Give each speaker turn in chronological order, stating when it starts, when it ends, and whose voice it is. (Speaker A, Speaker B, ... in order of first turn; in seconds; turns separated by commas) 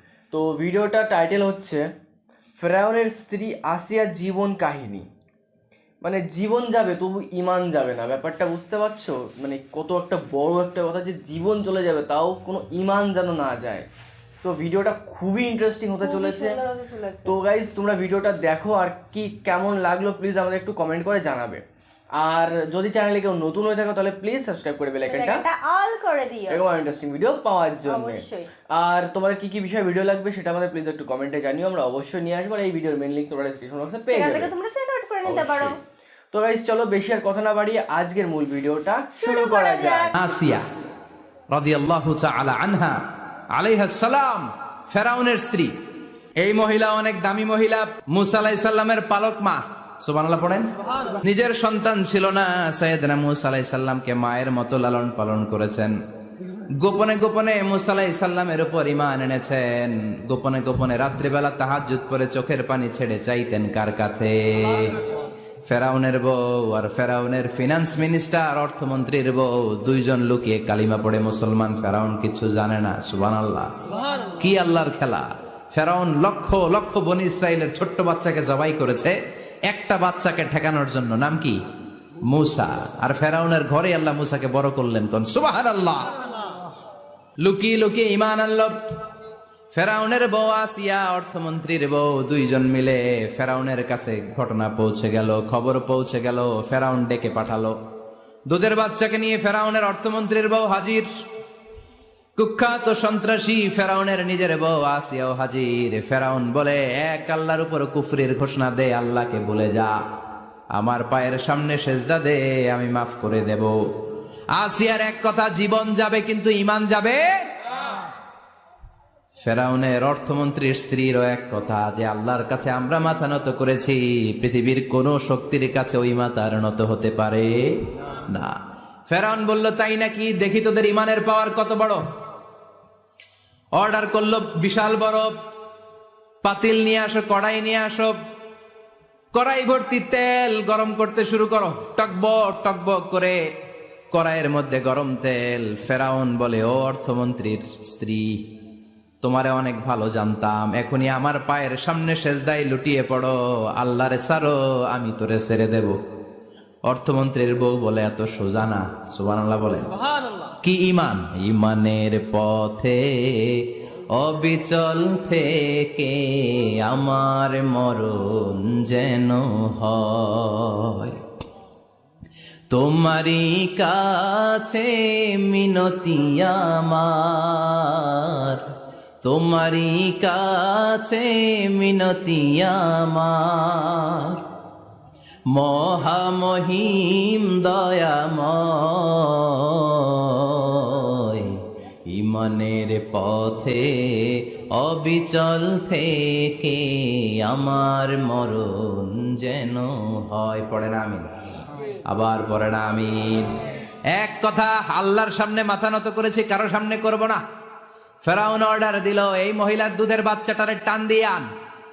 Speaker A: 0.3-1.8, Speaker A: 2.6-5.1, Speaker A: 6.0-13.9, Speaker A: 14.4-16.6, Speaker B: 16.0-17.4, Speaker A: 17.2-21.6, Speaker A: 22.2-25.4, Speaker B: 25.1-26.6, Speaker A: 26.5-28.2, Speaker B: 27.9-28.5, Speaker A: 28.8-34.5, Speaker B: 34.1-35.8, Speaker A: 35.2-35.8, Speaker A: 36.3-40.1, Speaker B: 39.2-40.1, Speaker C: 40.1-40.7, Speaker C: 41.5-43.0, Speaker C: 43.6-45.7, Speaker C: 46.4-56.0, Speaker C: 56.8-65.0, Speaker C: 65.7-73.7, Speaker C: 74.4-79.2, Speaker C: 79.7-81.6, Speaker C: 82.2-86.1, Speaker C: 87.4-88.7, Speaker C: 89.7-97.7, Speaker C: 98.5-101.1, Speaker C: 102.4-109.9, Speaker C: 110.8-113.7, Speaker C: 114.5-117.2, Speaker C: 119.4-128.6, Speaker C: 129.1-132.0, Speaker C: 133.8-135.3, Speaker C: 136.4-138.2, Speaker C: 139.3-143.4, Speaker C: 144.1-148.4, Speaker C: 149.2-156.0, Speaker C: 156.9-159.9, Speaker C: 160.6-163.7, Speaker C: 164.2-171.2, Speaker C: 172.7-178.7, Speaker C: 179.2-184.4, Speaker C: 185.5-201.3, Speaker C: 202.1-203.6, Speaker C: 204.1-207.4, Speaker C: 208.2-211.5